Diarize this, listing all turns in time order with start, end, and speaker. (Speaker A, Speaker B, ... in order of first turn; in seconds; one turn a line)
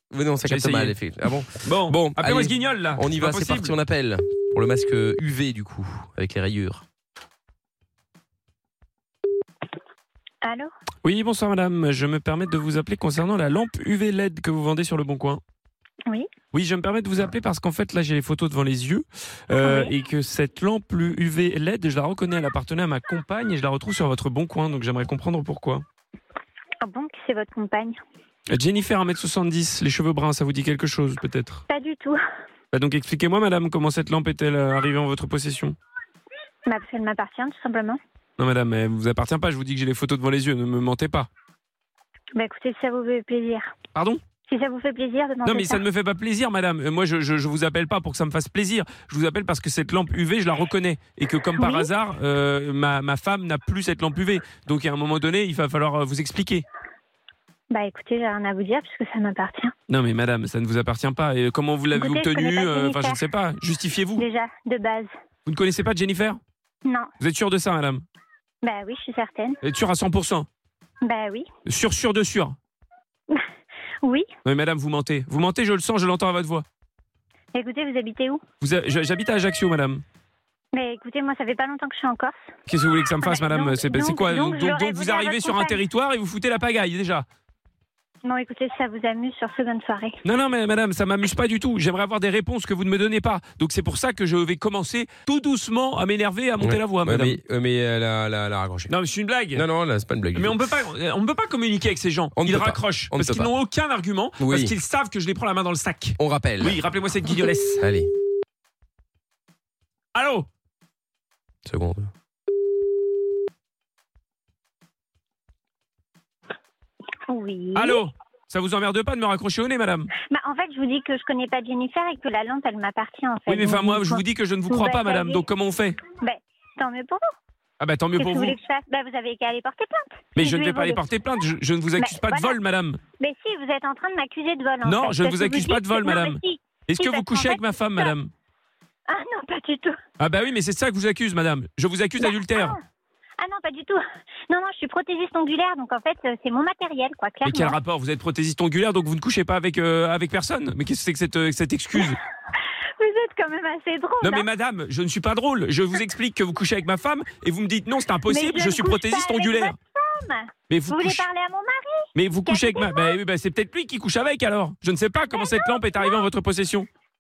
Speaker A: 0.1-6.8
Speaker B: 0.4-1.0
Speaker B: 1.6-3.8
Speaker C: 10.4-10.7
Speaker B: 11.0-15.4
Speaker B: 16.5-25.8
Speaker C: 26.8-28.0
Speaker B: 28.5-31.6
Speaker C: 31.7-32.2
Speaker B: 32.7-35.8
Speaker C: 36.7-38.0
Speaker B: 38.4-41.3
Speaker C: 42.3-43.7
Speaker B: 44.0-44.2
Speaker C: 44.5-45.8
Speaker B: 45.5-56.6
Speaker C: 51.6-51.9
Speaker C: 57.7-59.7
Speaker B: 59.9-64.3
Speaker C: 62.0-63.2
Speaker C: 64.2-65.1
Speaker B: 65.5-66.4
Speaker C: 66.8-67.1
Speaker B: 67.2-68.0
Speaker C: 68.6-69.6
Speaker B: 69.6-70.5
Speaker C: 71.0-71.5
Speaker B: 71.7-72.6
Speaker C: 74.0-74.3
Speaker B: 74.5-76.7
Speaker C: 77.5-78.4
Speaker B: 78.6-80.0
Speaker C: 80.7-82.4
Speaker B: 82.7-87.3
Speaker C: 83.2-85.8
Speaker C: 88.2-90.2
Speaker B: 90.2-97.4
Speaker A: 96.6-98.9
Speaker B: 98.9-99.7
Speaker A: 99.5-100.6
Speaker B: 100.3-107.8
Speaker A: 102.4-103.5
Speaker A: 104.4-104.8
Speaker A: 106.2-106.8
Speaker A: 107.8-108.1
Speaker B: 110.2-110.5
Speaker A: 111.7-112.1
Speaker C: 117.3-118.0
Speaker B: 117.8-120.1
Speaker C: 120.2-125.4
Speaker B: 123.5-126.0
Speaker C: 126.2-127.2
Speaker B: 127.8-128.6
Speaker C: 128.2-131.0
Speaker B: 130.3-133.0
Speaker C: 132.0-132.6
Speaker C: 133.2-138.1
Speaker B: 134.8-138.3
Speaker C: 139.1-140.0
Speaker B: 140.2-142.8
Speaker C: 143.4-147.8
Speaker B: 147.4-152.2
Speaker C: 153.0-154.4
Speaker B: 154.2-159.8
Speaker C: 158.3-163.2
Speaker B: 160.7-161.3
Speaker B: 162.2-166.9
Speaker C: 165.4-166.1